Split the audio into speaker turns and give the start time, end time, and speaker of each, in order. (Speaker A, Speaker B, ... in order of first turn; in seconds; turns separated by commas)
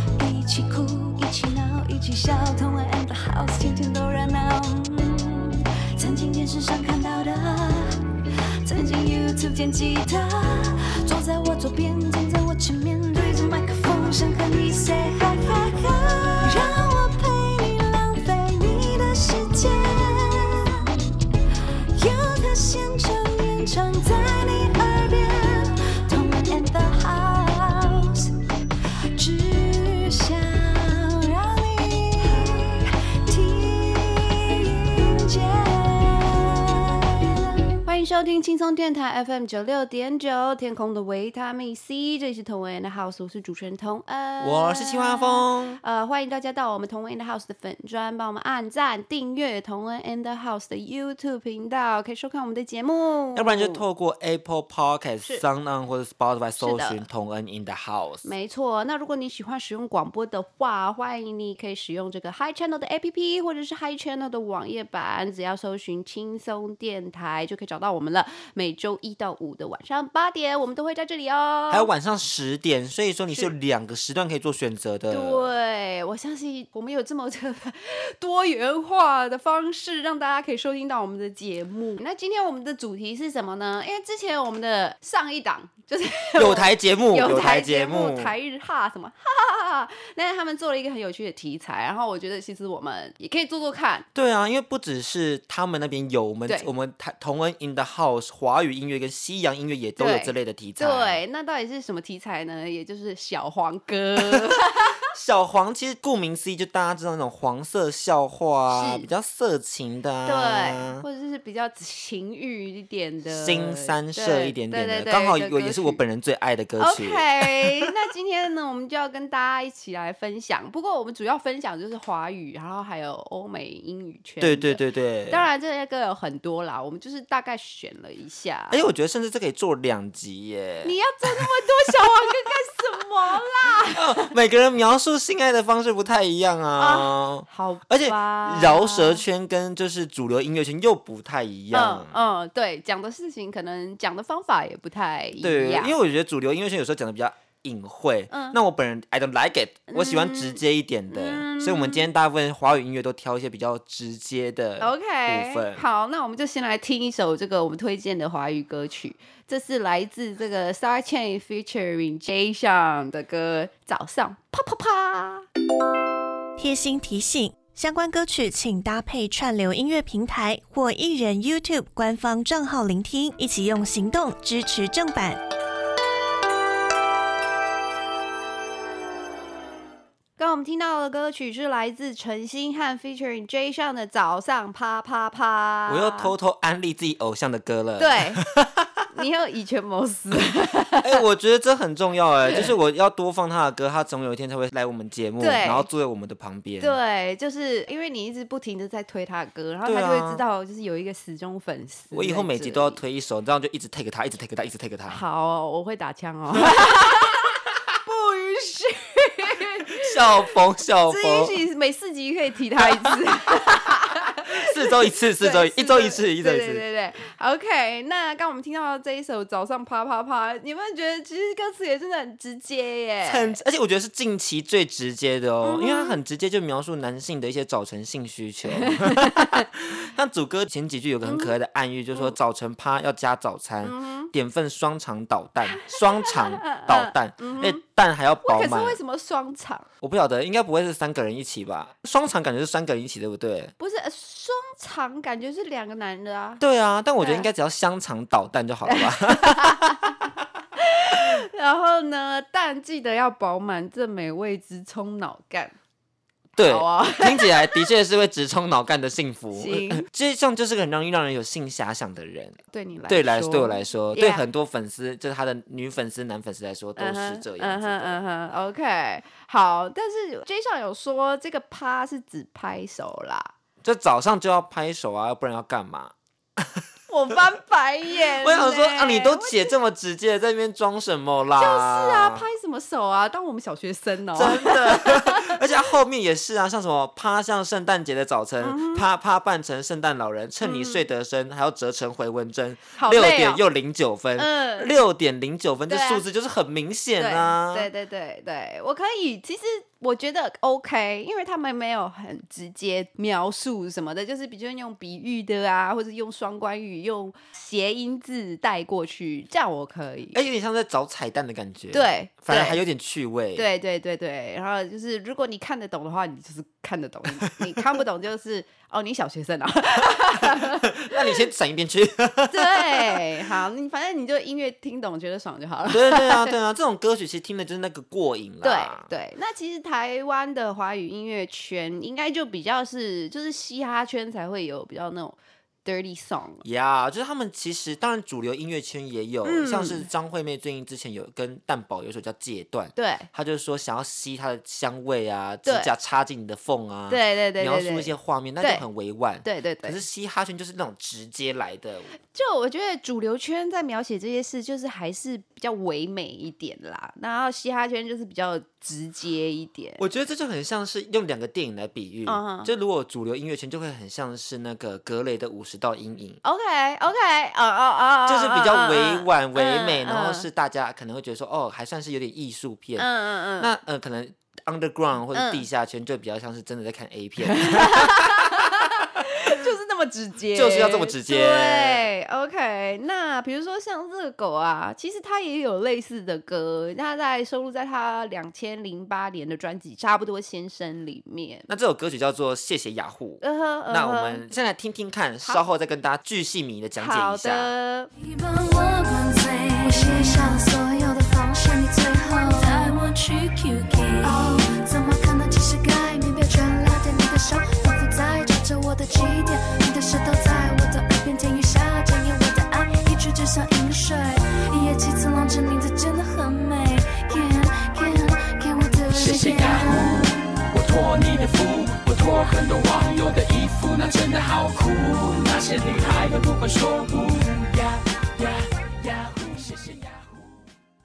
Speaker A: 0.1-8.1, Speaker B: 0.2-4.7, Speaker B: 6.5-7.2, Speaker A: 8.6-20.8, Speaker B: 8.7-13.9, Speaker B: 14.5-16.3, Speaker B: 16.9-20.0, Speaker A: 21.9-28.3, Speaker B: 22.0-25.3, Speaker B: 26.1-28.3, Speaker B: 29.2-29.6, Speaker A: 29.2-37.1, Speaker B: 30.2-30.5, Speaker B: 37.8-53.8, Speaker C: 44.4-45.8, Speaker C: 53.3-58.3, Speaker B: 56.6-57.0, Speaker B: 58.2-71.9, Speaker C: 71.7-75.5, Speaker B: 75.1-94.0, Speaker C: 86.4-88.3, Speaker C: 94.1-101.2, Speaker B: 100.0-105.0, Speaker C: 105.0-111.0, Speaker B: 108.7-109.1, Speaker B: 110.2-116.0, Speaker C: 113.3-117.9, Speaker B: 116.8-128.8, Speaker C: 124.4-125.4, Speaker C: 128.7-132.1, Speaker B: 130.8-134.3, Speaker C: 133.9-142.1, Speaker B: 136.8-139.2, Speaker B: 141.7-145.9, Speaker C: 145.4-155.8, Speaker B: 148.3-148.6, Speaker B: 149.9-152.1, Speaker B: 154.8-165.4, Speaker D: 166.6-175.4, Speaker B: 180.4-186.3, Speaker C: 185.9-189.1, Speaker B: 188.0-188.4, Speaker B: 189.1-191.2, Speaker C: 191.0-196.9, Speaker B: 192.4-192.7, Speaker B: 195.4-195.9, Speaker B: 196.8-203.0, Speaker C: 199.8-200.4, Speaker C: 202.1-205.2, Speaker B: 205.1-210.2, Speaker C: 209.9-211.6, Speaker B: 211.1-223.6, Speaker C: 212.8-213.1, Speaker C: 214.4-216.8, Speaker C: 223.2-239.0, Speaker B: 225.6-226.2, Speaker B: 228.8-229.7, Speaker B: 231.2-231.5, Speaker B: 233.8-234.3, Speaker B: 235.7-237.8, Speaker B: 238.4-239.9, Speaker C: 240.0-243.7, Speaker B: 243.8-246.6, Speaker C: 246.6-250.2, Speaker B: 247.2-247.5, Speaker B: 248.9-250.2, Speaker B: 250.8-255.7, Speaker C: 251.1-251.4, Speaker C: 256.5-268.2, Speaker B: 256.6-257.9, Speaker B: 259.5-260.1, Speaker B: 262.7-264.4, Speaker B: 267.0-273.5, Speaker C: 273.8-276.8, Speaker B: 277.1-279.7, Speaker C: 278.4-282.4, Speaker B: 281.6-285.6, Speaker C: 284.3-297.9, Speaker B: 288.6-289.0, Speaker B: 290.6-291.0, Speaker B: 292.9-293.6, Speaker B: 294.4-294.9, Speaker B: 295.9-296.2, Speaker B: 297.2-310.4, Speaker C: 310.3-313.6, Speaker B: 311.9-312.8, Speaker B: 313.5-321.4, Speaker C: 320.4-323.2, Speaker B: 322.5-326.5, Speaker C: 325.9-329.1, Speaker B: 328.6-336.6, Speaker C: 336.6-352.1, Speaker B: 339.4-340.1, Speaker B: 342.9-343.3, Speaker B: 345.6-345.9, Speaker B: 347.1-348.8, Speaker B: 349.4-350.0, Speaker B: 352.3-360.0, Speaker C: 360.0-366.4, Speaker B: 362.3-362.7, Speaker B: 366.4-370.5, Speaker C: 368.3-373.1, Speaker B: 373.0-373.7, Speaker C: 373.6-379.0, Speaker B: 375.3-375.6, Speaker B: 377.4-391.7, Speaker C: 380.5-382.1, Speaker C: 391.7-397.7, Speaker B: 393.4-394.4, Speaker B: 397.0-398.1, Speaker A: 398.2-420.3, Speaker D: 399.8-400.7, Speaker D: 402.2-402.9, Speaker D: 404.2-404.8, Speaker E: 419.1-430.4